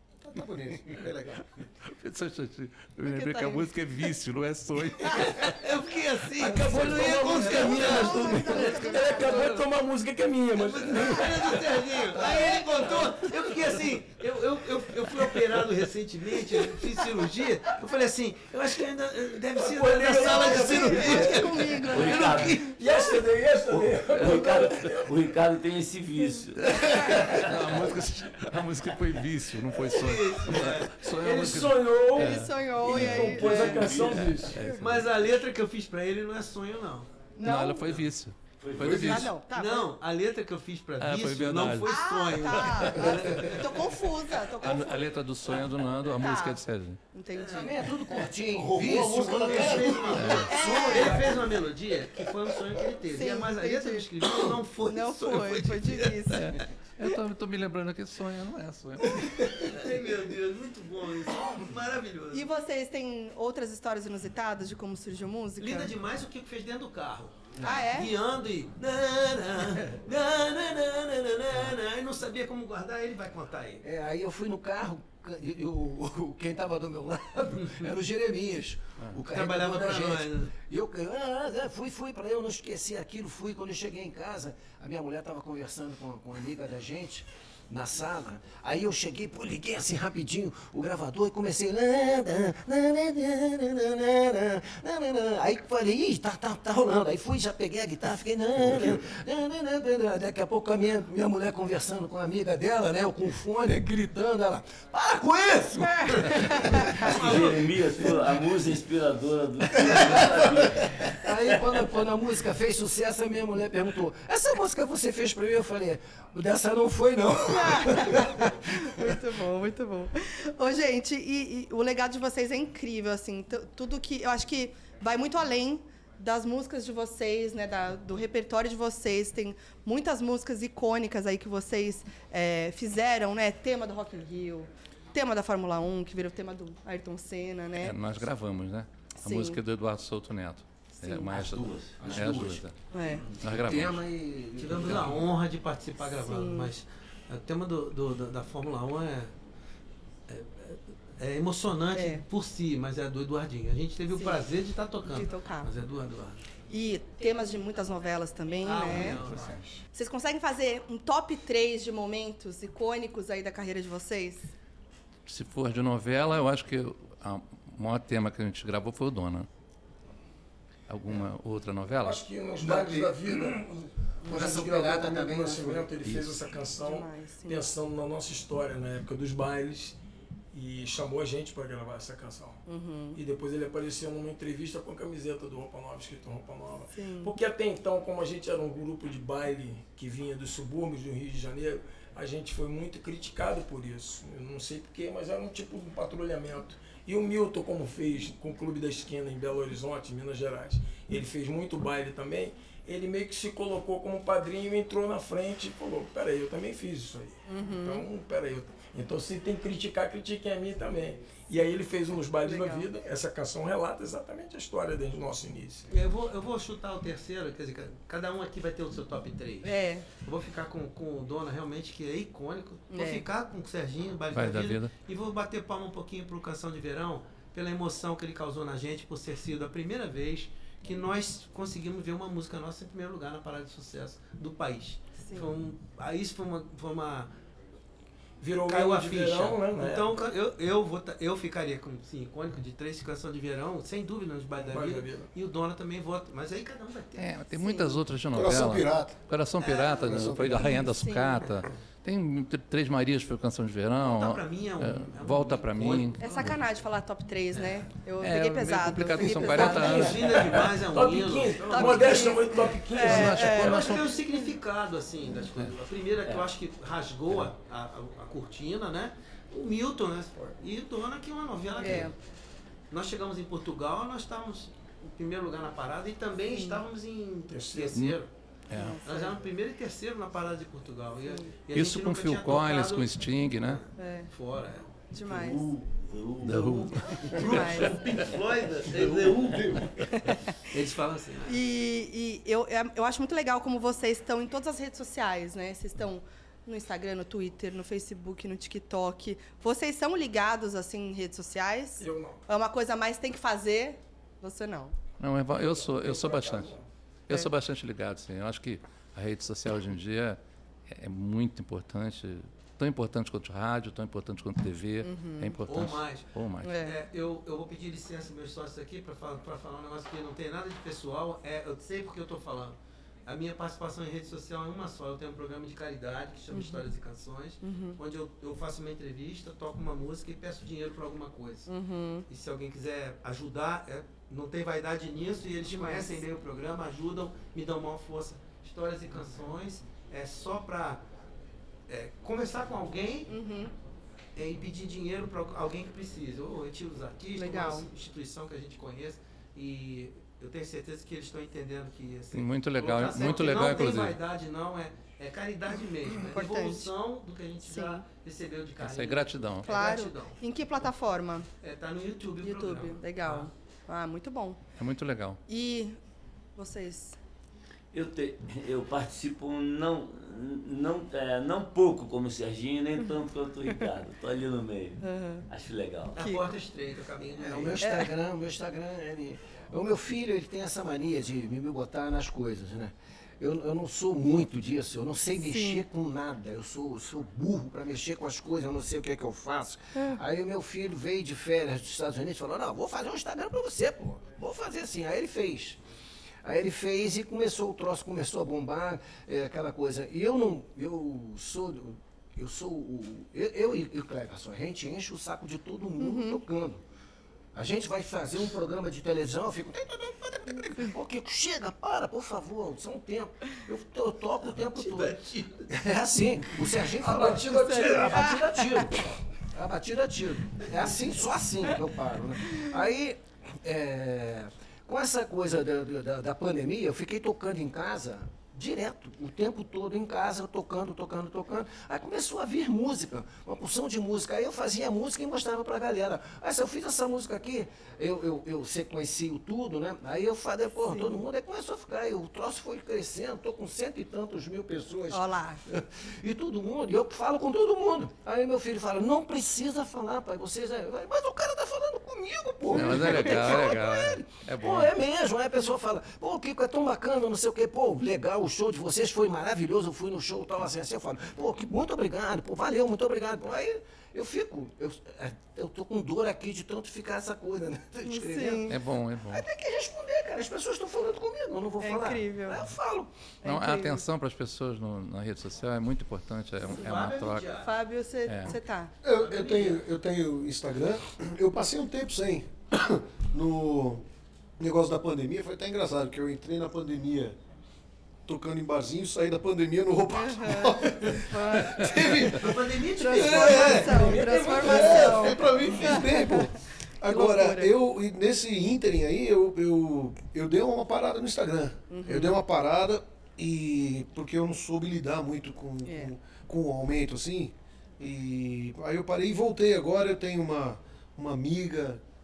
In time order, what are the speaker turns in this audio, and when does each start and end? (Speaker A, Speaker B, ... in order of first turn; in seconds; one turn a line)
Speaker A: 0.2-1.6
Speaker B: 1.9-5.6
Speaker C: 3.0-3.7
Speaker D: 5.2-9.1
Speaker E: 6.4-11.8
Speaker C: 7.4-9.6
Speaker B: 8.4-8.7
Speaker B: 9.2-9.6
Speaker D: 10.6-23.1
Speaker C: 12.2-13.3
Speaker E: 19.6-21.2
Speaker C: 20.2-22.6
Speaker F: 21.2-22.8
Speaker E: 22.7-25.2
Speaker F: 24.1-28.0
Speaker C: 26.2-26.4
Speaker B: 26.6-35.1
Speaker D: 29.8-31.0
Speaker E: 31.1-34.6
Speaker C: 32.1-33.9
Speaker F: 33.4-34.4
Speaker D: 34.6-37.3
Speaker C: 37.4-38.0
Speaker B: 37.4-39.4
Speaker F: 38.6-39.1
Speaker A: 38.8-39.2
Speaker C: 39.0-39.9
Speaker D: 39.5-43.9
Speaker B: 41.0-43.0
Speaker C: 41.9-45.1
Speaker B: 44.5-47.0
Speaker C: 46.2-46.6
Speaker C: 47.1-48.2
Speaker D: 47.3-47.8
Speaker G: 47.5-51.5
Speaker A: 48.5-50.3
Speaker D: 49.4-56.3
Speaker B: 50.1-50.5
Speaker C: 50.3-51.3
Speaker C: 53.1-57.2
Speaker B: 56.3-59.5
Speaker D: 59.4-62.5
Speaker C: 62.3-65.9
Speaker D: 65.6-73.8
Speaker C: 67.6-68.1
Speaker G: 73.8-108.2
Speaker D: 79.3-80.5
Speaker C: 106.6-106.8
Speaker D: 106.8-108.2
Speaker F: 106.9-111.2
Speaker G: 109.9-110.3
Speaker G: 111.1-118.5
Speaker C: 117.5-138.0
Speaker B: 137.8-142.8
Speaker C: 139.2-139.6
Speaker C: 141.0-141.3
Speaker G: 141.3-145.3
Speaker F: 141.6-142.2
Speaker C: 142.9-143.2
Speaker B: 143.4-144.0
Speaker D: 144.6-149.3
Speaker C: 146.0-146.7
Speaker D: 150.3-156.5
Speaker C: 151.9-152.2
Speaker C: 154.1-154.4
Speaker C: 155.1-155.7
Speaker C: 156.7-159.3
Speaker D: 158.6-159.6
Speaker B: 158.9-159.6
Speaker C: 159.9-164.5
Speaker B: 165.3-169.5
Speaker B: 170.9-172.2
Speaker E: 172.0-179.9
Speaker G: 172.6-173.6
Speaker G: 174.2-175.9
Speaker B: 176.0-176.4
Speaker C: 176.8-177.7
Speaker E: 180.5-182.6
Speaker C: 182.7-183.2
Speaker E: 183.1-215.9
Speaker C: 186.9-187.3
Speaker C: 207.5-208.0
Speaker C: 212.4-212.9
Speaker D: 215.9-237.3
Speaker C: 219.6-220.1
Speaker C: 222.9-223.2
Speaker B: 224.3-224.9
Speaker C: 235.2-235.5
Speaker E: 238.4-240.2
Speaker D: 238.6-247.3
Speaker E: 244.6-245.3
Speaker B: 247.2-256.6
Speaker C: 247.6-248.0
Speaker A: 248.3-249.2
Speaker D: 249.8-250.4
Speaker A: 249.9-250.8
Speaker C: 250.7-251.5
Speaker D: 254.0-256.2
Speaker C: 256.2-260.4
Speaker D: 257.5-257.9
Speaker B: 258.2-260.5
Speaker D: 259.3-262.5
Speaker E: 260.2-263.8
Speaker C: 261.7-264.0
Speaker B: 263.0-264.1
Speaker D: 263.1-272.1
Speaker C: 271.8-272.1
Speaker D: 272.9-278.3
Speaker C: 276.5-276.8
Speaker E: 277.5-278.0
Speaker B: 278.7-279.0
Speaker C: 278.7-279.4
Speaker D: 279.0-285.0
Speaker B: 281.7-283.8
Speaker C: 283.9-284.3
Speaker C: 285.1-285.6
Speaker F: 285.2-289.8
Speaker B: 286.4-287.3
Speaker D: 286.5-289.7
Speaker C: 287.4-288.0
Speaker A: 288.9-289.9
Speaker C: 290.1-290.6
Speaker D: 290.7-291.6
Speaker C: 291.4-304.9
Speaker E: 302.0-302.4
Speaker B: 305.2-306.7
Speaker E: 305.5-306.9
Speaker B: 307.3-316.8
Speaker C: 315.0-315.6
Speaker D: 315.7-331.7
Speaker C: 316.6-316.9
Speaker C: 326.5-326.9
Speaker C: 327.6-328.0
Speaker C: 331.7-332.2
Speaker D: 332.3-341.0
Speaker C: 335.7-336.2
Speaker D: 341.9-343.3
Speaker C: 343.3-343.7
Speaker D: 344.3-360.4
Speaker C: 347.4-347.9
Speaker B: 352.3-354.2
Speaker C: 353.1-353.5
Speaker C: 356.2-356.9
Speaker C: 357.6-358.0
Speaker B: 358.8-359.7
Speaker C: 359.6-361.5
Speaker D: 361.6-363.5
Speaker C: 362.4-364.6
Speaker B: 364.8-365.4
Speaker C: 365.5-366.0
Speaker C: 366.6-367.1
Speaker F: 367.9-376.2
Speaker C: 375.0-375.4
Speaker D: 376.1-377.8
Speaker C: 376.2-376.5
Speaker G: 377.4-395.8
Speaker C: 377.8-378.1
Speaker C: 385.4-385.8
Speaker C: 389.9-390.2
Speaker G: 396.4-406.8
Speaker C: 406.0-406.4
Speaker G: 407.5-473.1
Speaker D: 414.4-415.7
Speaker E: 417.0-418.4
Speaker C: 417.5-418.8
Speaker C: 422.5-422.8
Speaker C: 445.1-445.6
Speaker A: 452.6-453.4
Speaker B: 452.7-454.9
Speaker C: 468.0-468.8
Speaker B: 468.7-469.4
Speaker C: 471.8-472.6
Speaker C: 473.4-474.0
Speaker B: 473.4-477.5
Speaker D: 476.7-477.7
Speaker C: 477.6-478.9
Speaker B: 478.2-478.6
Speaker A: 479.0-484.0
Speaker D: 479.1-479.8
Speaker A: 484.6-487.4
Speaker A: 488.2-512.0
Speaker C: 490.1-491.9
Speaker D: 491.9-494.1
Speaker C: 492.9-497.7
Speaker E: 493.3-495.7
Speaker C: 501.9-502.4
Speaker C: 505.8-506.1